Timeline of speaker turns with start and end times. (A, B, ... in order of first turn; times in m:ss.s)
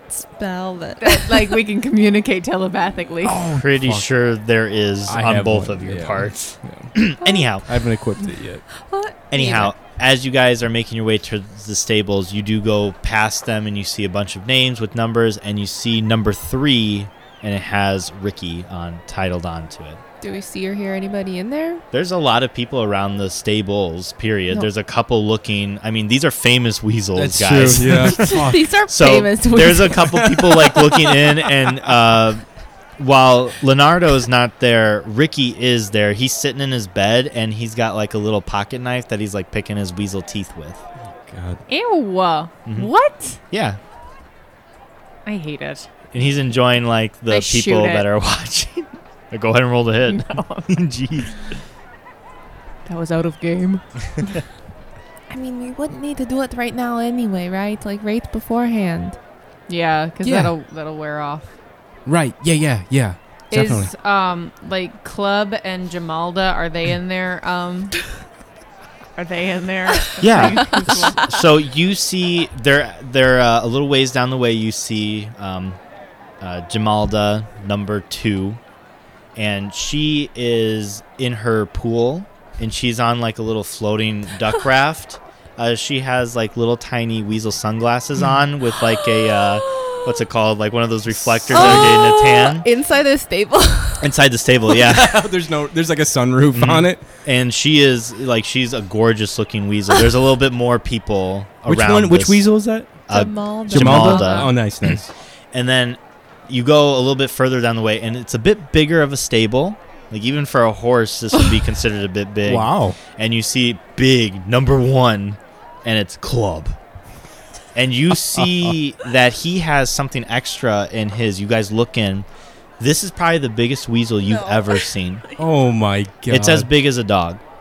0:00.1-0:01.6 A
0:01.0-0:03.4 B
0:03.2-0:04.1 C
0:03.5-0:07.7 D
0:05.1-0:07.0 C
0:07.2-0:07.5 A
0:07.6-0:08.6 C
0:08.8-0:09.7 A
0:09.3-0:20.0 D
0:20.2-0:21.8 A
0:21.9-0:32.4 D
0:27.2-0:28.7 C
0:27.8-0:30.5 A
0:30.6-0:31.0 C
0:33.0-0:40.8 D
0:41.1-0:41.6 C
0:41.7-0:43.4 B
0:43.5-0:43.8 D
0:45.3-0:45.9 B
0:46.1-0:51.6 D
0:47.3-0:48.1 B
0:50.0-0:50.8 B
0:52.9-0:54.4 B
0:55.3-0:59.2 A
0:59.7-1:01.5 B
1:00.2-1:00.5 C
1:02.1-1:03.9 C
1:03.5-1:08.0 B
1:09.2-1:11.4 B
1:10.2-1:15.8 D
1:10.6-1:11.1 A
1:16.4-1:18.6 D
1:19.4-1:32.7 D
1:29.4-1:30.1 A
1:31.3-1:32.0 C
1:31.5-1:34.1 A
1:34.0-1:35.2 D
1:34.8-1:37.0 C
1:36.5-1:42.5 D
1:41.7-1:42.9 C
1:43.1-1:56.8 D
1:43.1-1:44.5 A
1:43.7-1:45.1 C
1:52.4-1:53.0 C
1:57.8-2:02.3 D
1:58.4-1:58.7 C
2:02.8-2:05.2 D
2:04.3-2:04.8 A
2:05.4-2:06.7 C
2:06.3-2:07.4 D